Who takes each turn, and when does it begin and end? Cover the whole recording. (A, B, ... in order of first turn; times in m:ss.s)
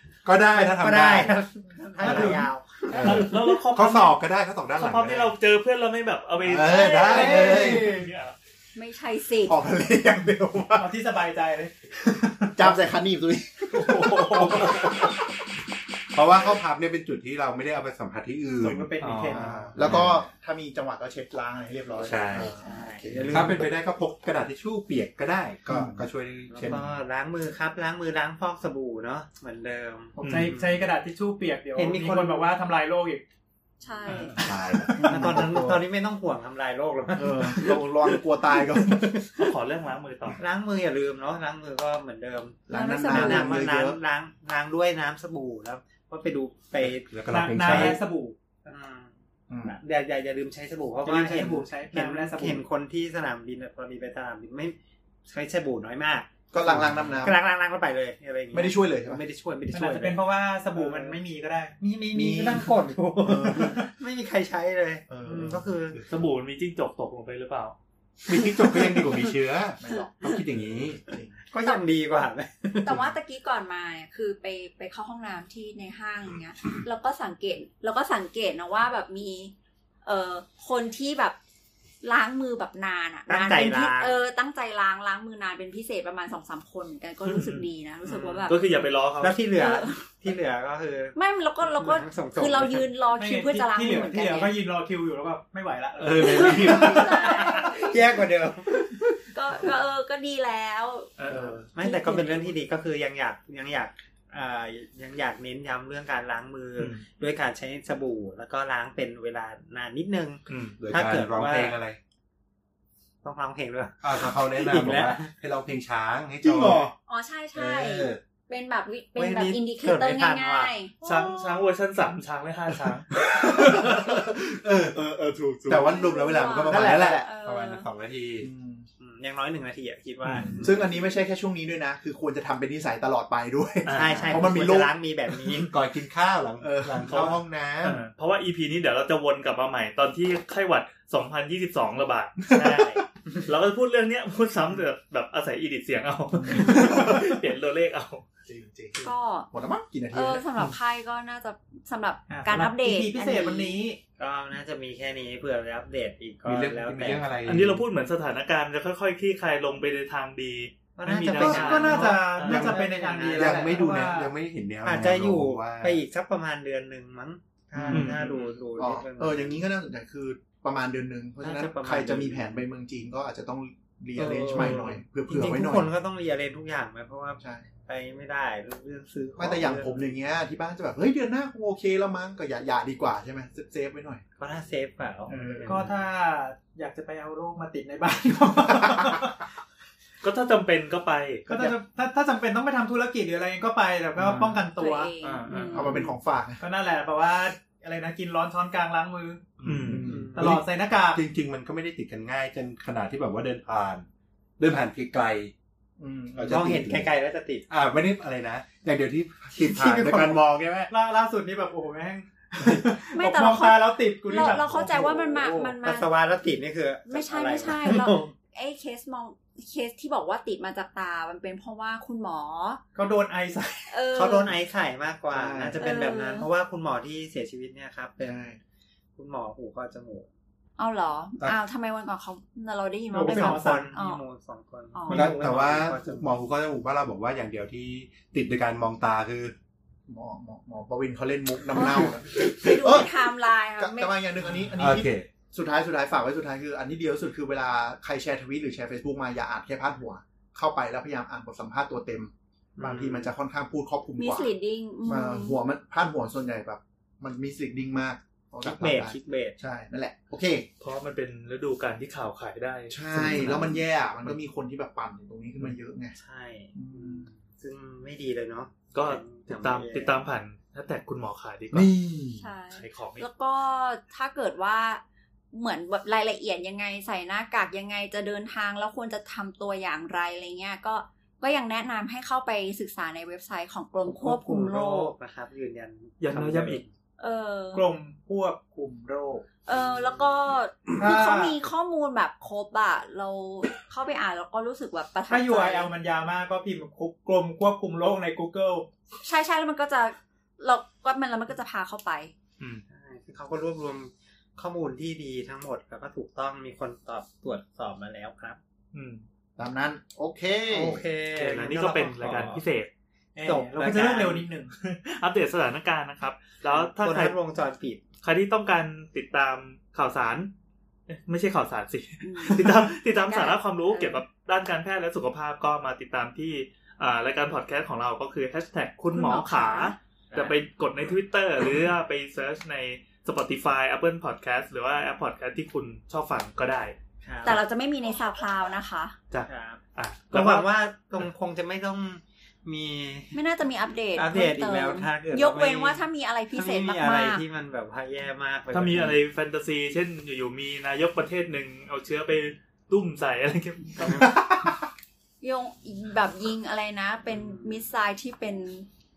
0:00.2-0:01.4 A
0:00.5-0:03.3 B
0:02.0-0:02.4 C
0:02.0-0:05.4 A
0:03.0-0:04.2 D
0:04.8-0:08.4 D
0:06.4-0:08.0 A
0:06.6-0:07.8 E
0:07.0-0:08.1 C
0:08.8-0:09.6 F
0:09.4-0:10.9 E
0:10.8-0:11.8 C
0:12.6-0:15.2 E
0:13.7-0:15.0 D
0:14.0-0:15.2 A
0:16.1-0:20.3 A
0:18.6-0:19.7 C
0:19.0-0:19.4 D
0:19.4-0:19.7 B
0:19.7-0:23.6 E
0:22.0-0:22.5 A
0:22.4-0:23.6 B
0:23.3-0:26.8 A
0:25.7-0:26.0 E
0:26.5-0:30.8 B
0:30.2-0:33.2 C
0:30.2-0:30.6 D
0:31.8-0:32.5 B
0:33.8-0:34.4 F
0:34.4-0:35.4 A
0:35.0-0:35.8 E
0:35.0-0:37.8 B
0:37.2-0:39.2 E
0:38.8-0:39.2 B
0:39.4-0:40.4 D
0:40.4-0:48.0 B
0:42.7-0:44.0 E
0:43.1-0:43.4 F
0:46.8-0:48.0 A
0:47.3-0:48.4 C
0:48.6-0:49.1 B
0:49.5-0:49.8 E
0:49.6-1:01.2 B
0:51.0-0:52.6 C
0:56.5-0:57.4 E
0:56.6-0:57.0 A
0:58.5-0:59.2 E
0:59.7-1:01.8 C
1:01.8-1:06.0 B
1:02.1-1:03.9 E
1:05.1-1:06.1 E
1:06.1-1:07.8 D
1:08.3-1:11.0 A
1:09.8-1:11.4 E
1:11.5-1:13.0 B
1:12.8-1:19.5 F
1:20.0-1:21.4 F
1:22.0-1:28.7 F
1:23.3-1:24.2 B
1:27.2-1:27.7 D
1:28.1-1:28.6 B
1:28.5-1:29.4 D
1:29.2-1:32.9 B
1:29.5-1:30.0 F
1:31.2-1:34.5 F
1:33.2-1:36.8 C
1:36.0-1:37.2 A
1:36.2-1:37.8 F
1:36.2-1:39.0 B
1:39.3-1:41.1 F
1:41.2-1:41.6 D
1:41.3-1:41.8 E
1:41.8-1:51.8 B
1:41.8-1:42.5 F
1:46.8-1:47.0 D
1:50.5-1:50.8 D
1:50.8-1:52.0 A
1:53.2-1:55.3 B
1:54.0-1:56.9 A
1:56.4-1:56.9 E
1:57.1-2:01.0 F
1:57.6-1:58.2 A
1:59.2-2:00.7 B
2:01.0-2:03.1 D
2:03.1-2:05.0 A
2:05.0-2:07.3 E
2:05.6-2:08.5 A
2:05.8-2:07.9 F
2:08.4-2:08.9 E
2:09.0-2:10.9 B
2:10.2-2:10.6 D
2:10.6-2:14.9 E
2:13.8-2:14.5 D
2:13.9-2:15.7 B
2:15.7-2:18.0 A
2:16.6-2:17.4 E
2:17.1-2:28.2 D
2:26.4-2:27.3 E
2:28.5-2:30.5 E
2:29.0-2:29.5 F
2:30.1-2:33.8 F
2:32.3-2:34.0 C
2:34.2-2:37.3 B
2:36.4-2:37.8 A
2:37.4-2:42.6 D
2:41.0-2:43.7 B
2:41.4-2:44.3 C
2:42.5-2:46.0 A
2:44.8-2:49.6 B
2:47.8-2:48.2 E
2:47.9-2:48.5 D
2:48.8-2:55.9 E
2:51.4-2:52.6 B
2:54.2-3:00.1 B
2:54.6-2:54.9 D
2:57.4-2:57.7 E
2:59.4-3:04.2 E
3:04.4-3:05.4 B
3:05.3-3:05.9 E
3:05.7-3:09.5 C
3:10.2-3:11.7 D
3:11.5-3:15.1 C
3:14.2-3:14.5 E
3:14.7-3:16.0 F
3:15.2-3:15.8 D
3:15.7-3:16.6 E
3:16.6-3:19.5 C
3:19.6-3:24.1 A
3:19.6-3:20.1 D
3:19.9-3:20.4 E
3:20.1-3:20.4 B
3:20.4-3:21.2 C
3:24.6-3:25.5 A
3:26.0-3:26.8 E
3:26.3-3:27.1 A
3:26.5-3:27.7 B
3:27.7-3:30.9 A
3:29.6-3:30.4 B
3:30.9-3:35.7 C
3:33.1-3:36.1 F
3:34.4-3:38.3 B
3:37.1-3:42.8 F
3:43.0-3:44.0 C
3:43.9-3:44.5 F
3:44.1-3:48.4 B
3:45.3-3:45.8 E
3:45.8-3:46.5 F
3:48.2-3:48.6 E
3:49.2-3:50.3 B
3:50.8-3:54.2 F
3:53.1-3:53.9 C
3:53.2-3:56.4 B
3:54.9-3:55.3 F
3:55.1-3:59.5 A
4:00.1-4:14.5 E
4:01.7-4:04.2 F
4:04.8-4:05.3 A
4:12.8-4:13.3 B
4:14.2-4:15.6 F
4:15.0-4:20.7 E
4:18.6-4:19.6 B
4:20.8-4:23.8 D
4:22.9-4:26.2 E
4:26.2-4:30.2 B
4:26.8-4:27.3 E
4:28.9-4:31.9 D
4:31.7-4:32.5 E
4:32.4-4:45.1 F
4:32.7-4:33.3 D
4:44.0-4:46.9 B
4:46.2-4:46.8 D
4:47.2-4:47.9 F
4:47.7-4:49.6 C
4:49.6-4:55.9 F
4:49.8-4:50.3 B
4:51.0-4:51.6 C
4:55.3-4:58.9 C
4:59.2-5:02.3 F
5:02.9-5:08.6 B
5:08.9-5:09.2 D
5:09.6-5:11.0 E
5:10.7-5:12.6 B
5:11.4-5:12.9 D
5:13.4-5:14.8 C
5:13.4-5:14.5 B
5:14.8-5:17.4 D
5:16.6-5:18.0 B
5:18.2-5:20.5 D
5:21.1-5:37.0 D
5:22.2-5:24.2 F
5:29.1-5:30.0 F
5:30.3-5:30.6 B
5:37.2-5:37.6 B
5:37.4-5:39.2 F
5:39.3-5:40.7 D
5:39.5-5:39.8 B
5:40.3-5:43.4 B
5:43.3-5:47.4 F
5:44.2-5:49.2 B
5:48.7-5:54.4 D
5:55.4-5:58.9 F
5:57.3-5:57.8 B